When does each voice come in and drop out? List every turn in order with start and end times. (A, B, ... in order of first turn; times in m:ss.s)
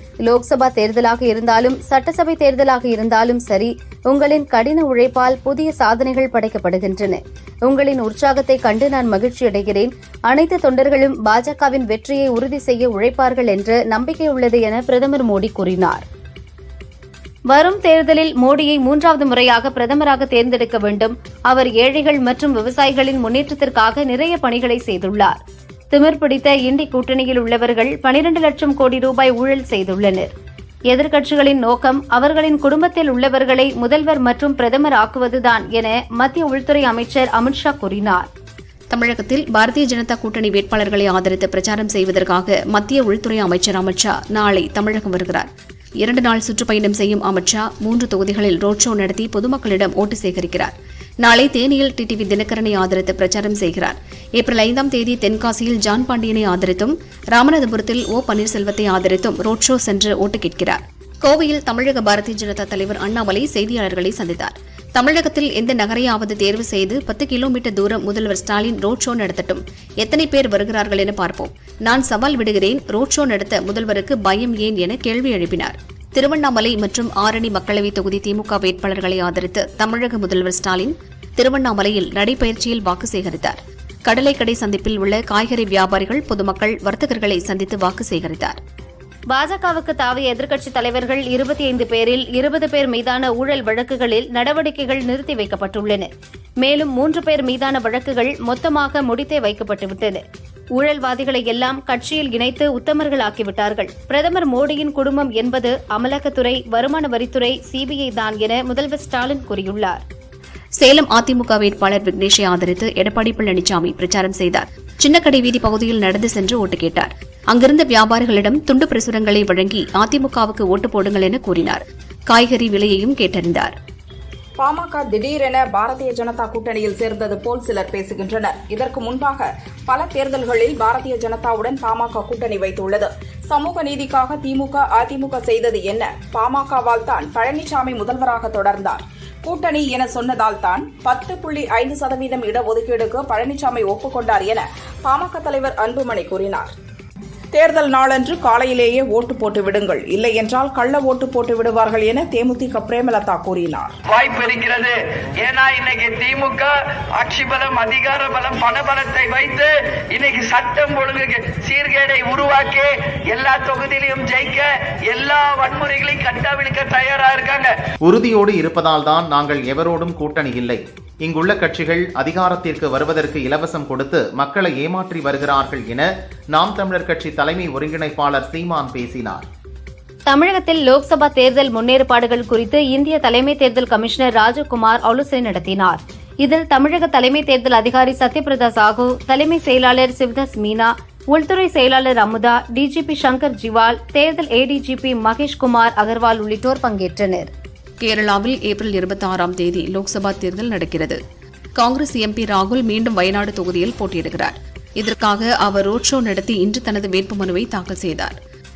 0:00.2-0:16.0 A
0:17.5-0:25.4 A
0:25.9-0:30.3 A
0:30.9-0:38.3 A
0:38.9-0:45.5 B
0:46.0-1:28.6 B
1:29.3-1:36.1 A
1:36.6-1:40.2 A
1:40.8-1:50.0 A
1:50.8-2:03.7 B
2:04.6-2:26.7 C
2:27.5-2:33.9 C
2:34.1-2:47.7 D
2:48.0-2:59.4 E
3:00.3-3:17.5 A
3:18.0-3:21.2 B
3:21.8-3:28.4 B